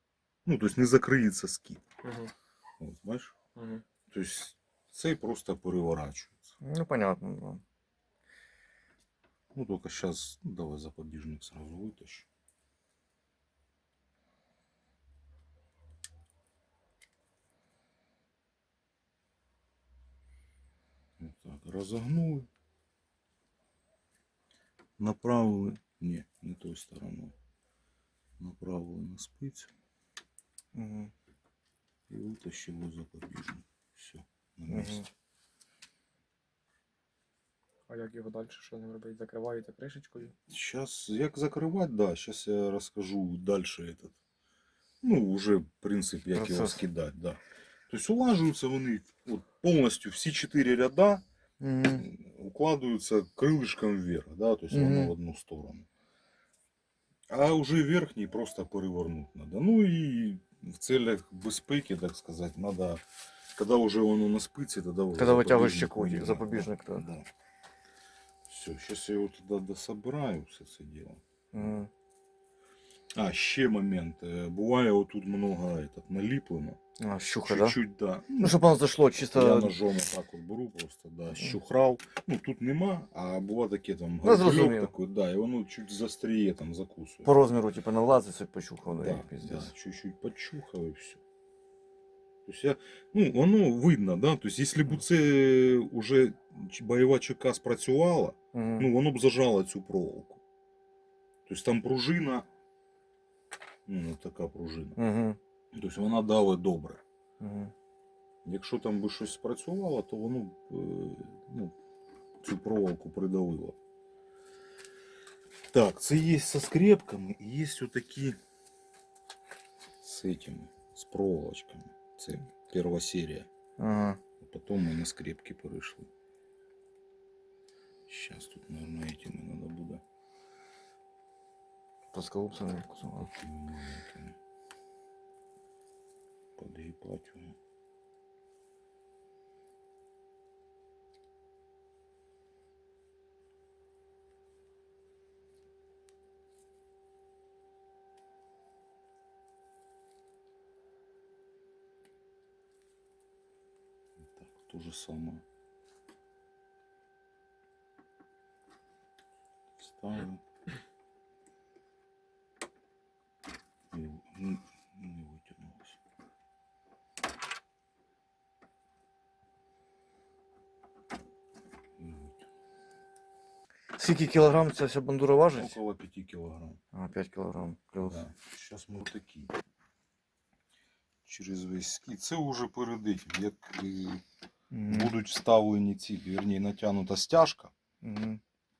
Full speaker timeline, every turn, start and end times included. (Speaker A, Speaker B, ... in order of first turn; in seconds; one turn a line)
Speaker A: 0.5-1.8
Speaker B: 2.0-2.3
Speaker A: 2.8-3.4
Speaker B: 3.5-3.8
Speaker A: 4.1-6.5
Speaker C: 6.6-7.6
Speaker A: 9.5-12.3
Speaker A: 21.2-22.5
Speaker A: 25.0-27.3
Speaker A: 28.4-29.7
Speaker C: 30.8-31.1
Speaker A: 32.1-35.1
Speaker C: 34.7-35.1
Speaker B: 37.9-40.3
Speaker A: 40.5-44.2
Speaker A: 45.0-51.2
Speaker C: 46.3-46.8
Speaker C: 51.6-52.1
Speaker A: 51.9-55.9
Speaker C: 54.7-55.1
Speaker A: 57.3-63.0
Speaker A: 63.5-67.3
Speaker C: 65.2-67.1
Speaker A: 68.5-71.8
Speaker C: 71.5-71.9
Speaker A: 73.1-76.8
Speaker C: 77.0-77.8
Speaker A: 77.5-78.7
Speaker C: 78.4-79.8
Speaker A: 79.3-87.3
Speaker C: 84.2-84.9
Speaker C: 87.2-89.7
Speaker A: 88.9-91.2
Speaker A: 92.5-100.4
Speaker C: 98.5-98.9
Speaker A: 101.5-102.5
Speaker A: 103.9-105.0
Speaker C: 105.0-105.4
Speaker A: 105.7-107.0
Speaker C: 107.4-107.7
Speaker A: 108.5-111.7
Speaker A: 112.4-113.8
Speaker A: 115.7-118.4
Speaker A: 120.0-123.5
Speaker C: 123.8-124.2
Speaker A: 124.4-126.1
Speaker A: 128.1-130.0
Speaker C: 132.1-133.3
Speaker A: 133.1-134.4
Speaker A: 136.6-137.6
Speaker A: 154.4-155.4
Speaker A: 159.8-160.4
Speaker A: 163.9-166.0
Speaker A: 172.0-172.4
Speaker C: 174.0-175.8
Speaker A: 175.5-176.8
Speaker C: 176.9-178.2
Speaker A: 178.0-179.5
Speaker A: 181.2-184.2
Speaker C: 184.7-185.1
Speaker A: 184.9-187.7
Speaker C: 188.0-188.4